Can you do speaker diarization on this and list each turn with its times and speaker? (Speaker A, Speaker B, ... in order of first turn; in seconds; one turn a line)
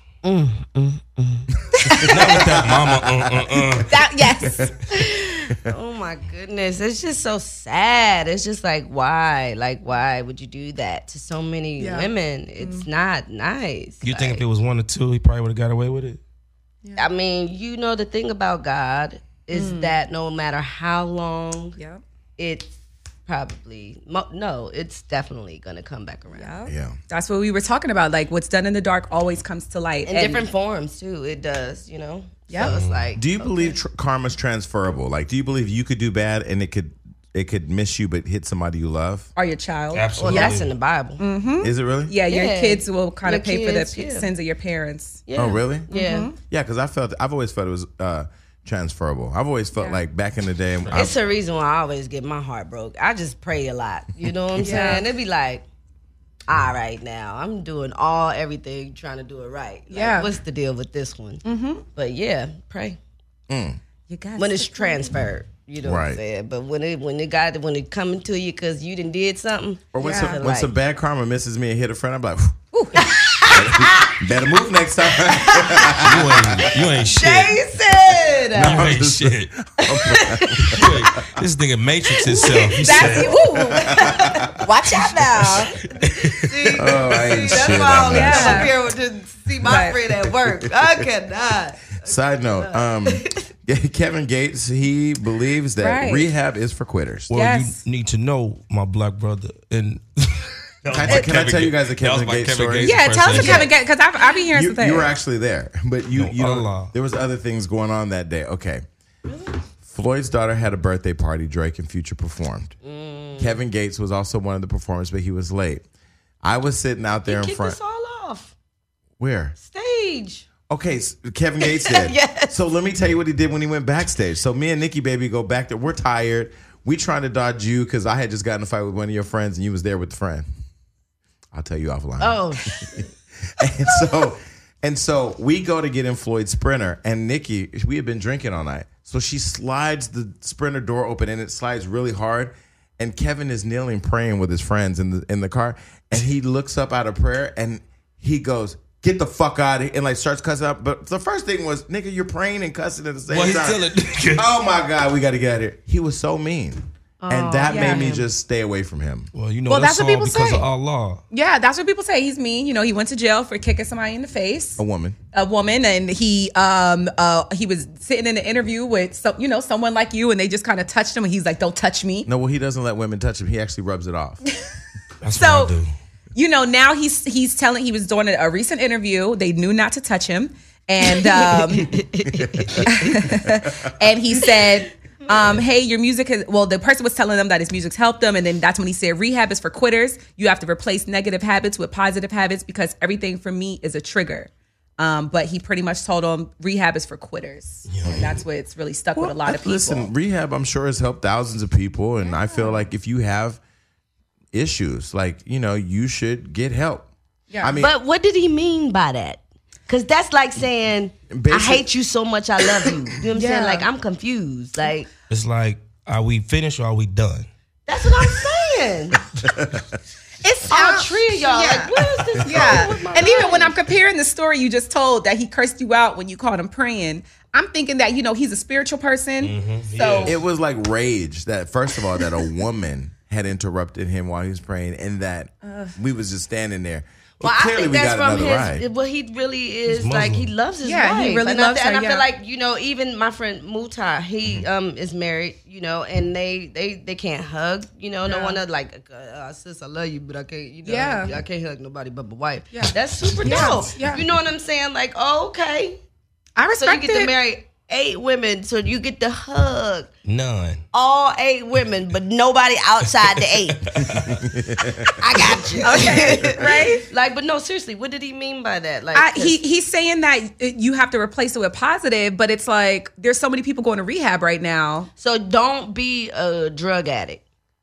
Speaker A: 0.2-1.5
Speaker B: 1.6-3.9
Speaker C: 1.8-2.4
Speaker D: 2.0-4.0
Speaker C: 3.8-4.7
Speaker B: 4.4-4.7
Speaker A: 4.9-14.4
Speaker C: 11.8-12.9
Speaker D: 14.0-16.2
Speaker A: 17.0-21.8
Speaker C: 19.5-19.9
Speaker A: 22.4-22.7
Speaker A: 23.2-26.6
Speaker C: 26.3-30.5
Speaker B: 26.6-27.0
Speaker A: 30.1-33.8
Speaker C: 32.5-32.7
Speaker D: 32.6-33.1
Speaker B: 33.1-39.3
Speaker C: 39.4-40.6
Speaker D: 39.9-40.7
Speaker A: 40.2-41.2
Speaker C: 41.2-45.2
Speaker B: 41.6-42.1
Speaker A: 42.3-44.3
Speaker A: 45.3-46.3
Speaker B: 45.3-45.9
Speaker C: 45.9-46.4
Speaker B: 46.5-51.2
Speaker A: 50.9-55.6
Speaker C: 54.6-55.1
Speaker A: 56.5-61.4
Speaker C: 59.9-60.3
Speaker C: 61.4-61.8
Speaker A: 61.9-63.0
Speaker B: 63.5-63.8
Speaker C: 64.1-65.2
Speaker A: 64.4-70.7
Speaker B: 65.8-66.2
Speaker B: 69.9-72.5
Speaker C: 70.0-70.4
Speaker C: 72.7-73.1
Speaker A: 72.9-74.2
Speaker B: 73.5-76.7
Speaker A: 75.2-78.9
Speaker D: 76.0-77.6
Speaker B: 78.5-81.3
Speaker D: 78.5-79.5
Speaker A: 79.8-80.9
Speaker D: 80.6-83.4
Speaker A: 82.2-85.5
Speaker C: 82.7-85.8
Speaker B: 83.0-84.6
Speaker D: 85.4-87.5
Speaker A: 86.2-93.5
Speaker B: 86.8-88.7
Speaker C: 87.8-88.7
Speaker C: 89.6-90.0
Speaker B: 92.0-97.3
Speaker C: 95.8-96.3
Speaker D: 97.3-103.7
Speaker C: 97.3-97.8
Speaker B: 100.9-103.6
Speaker C: 102.8-105.1
Speaker A: 103.3-103.6
Speaker B: 104.5-108.8
Speaker D: 106.1-106.9
Speaker A: 109.2-109.6
Speaker B: 109.8-112.7
Speaker A: 112.8-113.6
Speaker B: 113.4-115.8
Speaker B: 116.4-117.8
Speaker A: 117.2-118.5
Speaker B: 119.2-119.5
Speaker A: 119.6-120.5
Speaker B: 120.7-130.4
Speaker A: 121.6-122.5
Speaker B: 131.5-159.3
Speaker A: 132.2-133.1
Speaker D: 153.3-154.5
Speaker A: 157.2-158.3
Speaker C: 157.7-158.2
Speaker D: 159.3-161.2
Speaker C: 159.7-160.7
Speaker C: 161.3-164.8
Speaker B: 164.8-165.2
Speaker C: 165.3-172.3
Speaker B: 172.2-174.4
Speaker D: 175.2-175.9
Speaker C: 175.3-175.7
Speaker C: 176.3-182.0
Speaker A: 181.0-183.2
Speaker B: 182.3-183.9
Speaker C: 182.8-200.1
Speaker D: 197.9-198.4
Speaker B: 198.0-198.3
Speaker B: 199.1-203.6
Speaker C: 202.2-202.8
Speaker B: 204.5-207.1
Speaker C: 207.5-207.8
Speaker B: 207.6-207.9
Speaker A: 207.7-215.1
Speaker B: 211.3-211.9
Speaker C: 213.3-213.9
Speaker D: 215.3-217.5
Speaker A: 217.9-219.2
Speaker B: 219.4-219.9
Speaker C: 220.4-230.3
Speaker A: 220.7-223.8
Speaker B: 222.4-223.3
Speaker D: 229.4-230.4
Speaker B: 230.2-238.8
Speaker C: 235.6-235.9
Speaker A: 237.4-256.0
Speaker D: 239.9-240.5
Speaker C: 240.8-242.2
Speaker C: 248.2-248.6
Speaker C: 250.8-251.4
Speaker C: 252.7-254.2
Speaker C: 256.6-257.3
Speaker A: 256.8-260.1
Speaker D: 260.2-260.8
Speaker A: 260.9-264.1
Speaker D: 263.7-264.4
Speaker B: 264.0-265.2
Speaker A: 265.1-269.6
Speaker C: 265.8-267.0
Speaker C: 269.1-275.1
Speaker A: 275.2-277.4